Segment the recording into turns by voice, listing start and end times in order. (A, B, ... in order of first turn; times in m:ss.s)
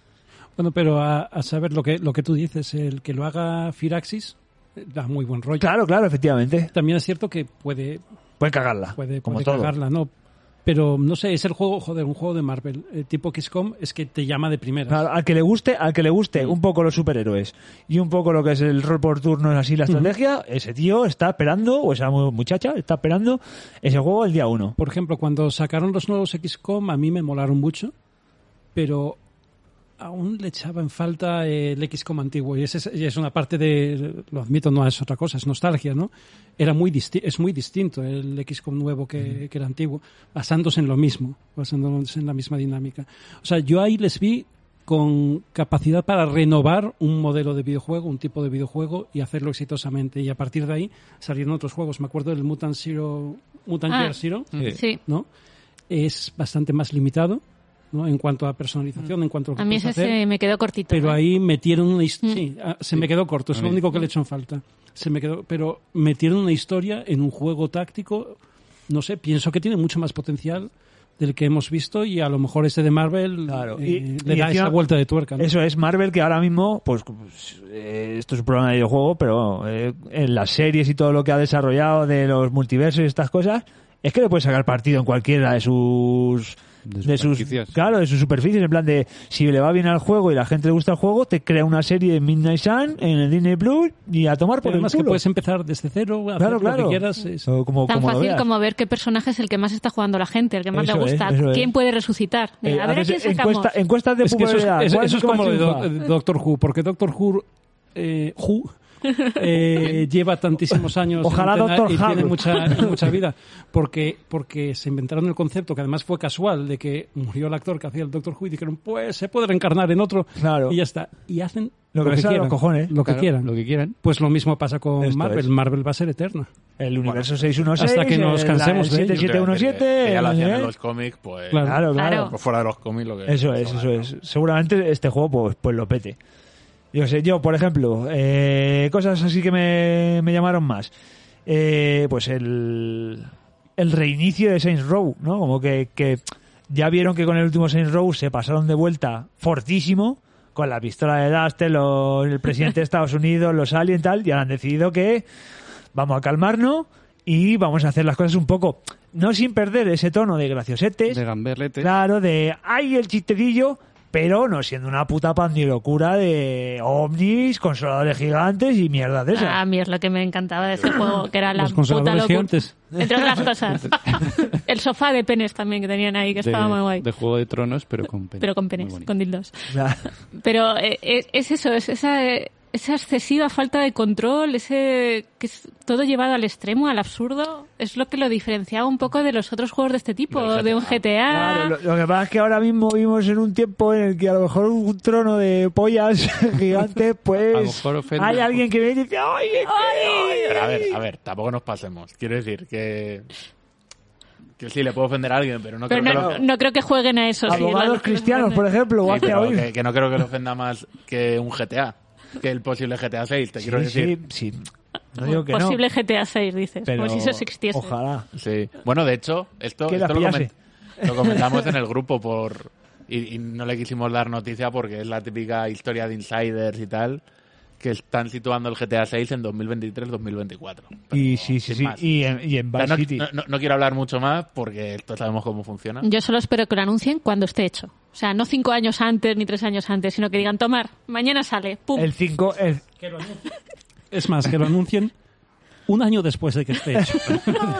0:00.6-0:05.7 A
0:05.6-0:06.7 B
0:06.7-0:08.0 A
0:08.4-0:09.7 B
0:09.0-0:10.1 A
0:10.6-0:15.0 A
0:14.9-0:24.8 B
0:24.8-0:27.9 A
0:28.7-0:29.2 A
0:30.0-0:55.3 A
0:53.9-0:54.2 C
0:54.7-0:55.0 C
0:55.9-1:00.2 A
0:59.6-1:01.2 C
1:00.9-1:15.5 A
1:03.5-1:03.8 D
1:13.5-1:14.8 B
1:15.4-1:35.2 B
1:26.9-1:27.7 D
1:34.6-1:37.5 A
1:36.4-1:38.5 B
1:37.9-1:43.7 C
1:40.7-1:41.7 B
1:42.6-1:45.9 B
1:44.2-1:48.7 A
1:49.3-2:06.5 A
1:51.2-1:52.9 B
2:00.4-2:00.8 B
2:01.9-2:02.9 B
2:03.0-2:04.0 D
2:05.0-2:05.5 B
2:06.8-2:10.7 B
2:07.0-2:07.4 E
2:07.8-2:09.2 A
2:09.1-2:14.1 E
2:11.5-2:11.8 A
2:11.6-2:12.4 B
2:11.9-2:12.3 C
2:13.2-2:16.2 B
2:16.9-2:20.9 B
2:21.4-2:35.2 B
2:35.9-2:41.2 B
2:41.1-2:41.9 D
2:41.8-2:49.6 B
2:49.3-2:57.0 C
2:51.6-2:52.7 A
2:56.4-2:59.0 D
2:58.4-2:59.5 C
2:59.7-3:00.0 B
3:00.3-3:11.7 C
3:10.3-3:11.0 E
3:11.3-3:21.0 B
3:17.5-3:18.6 D
3:19.7-3:20.6 C
3:20.5-3:23.3 E
3:24.6-3:26.4 E
3:25.9-3:28.6 C
3:26.0-3:26.4 B
3:27.4-3:29.7 B
3:29.0-3:34.1 E
3:33.6-3:34.6 B
3:35.1-3:35.8 B
3:35.2-3:37.9 C
3:36.8-3:38.3 B
3:38.4-3:40.5 E
3:39.9-3:41.6 B
3:41.0-3:47.2 E
3:47.8-3:52.0 E
3:51.1-3:53.3 B
3:52.8-3:56.0 E
3:56.0-4:02.1 C
4:02.0-4:02.8 B
4:03.0-4:03.4 A
4:04.1-4:05.1 A
4:05.9-4:07.6 A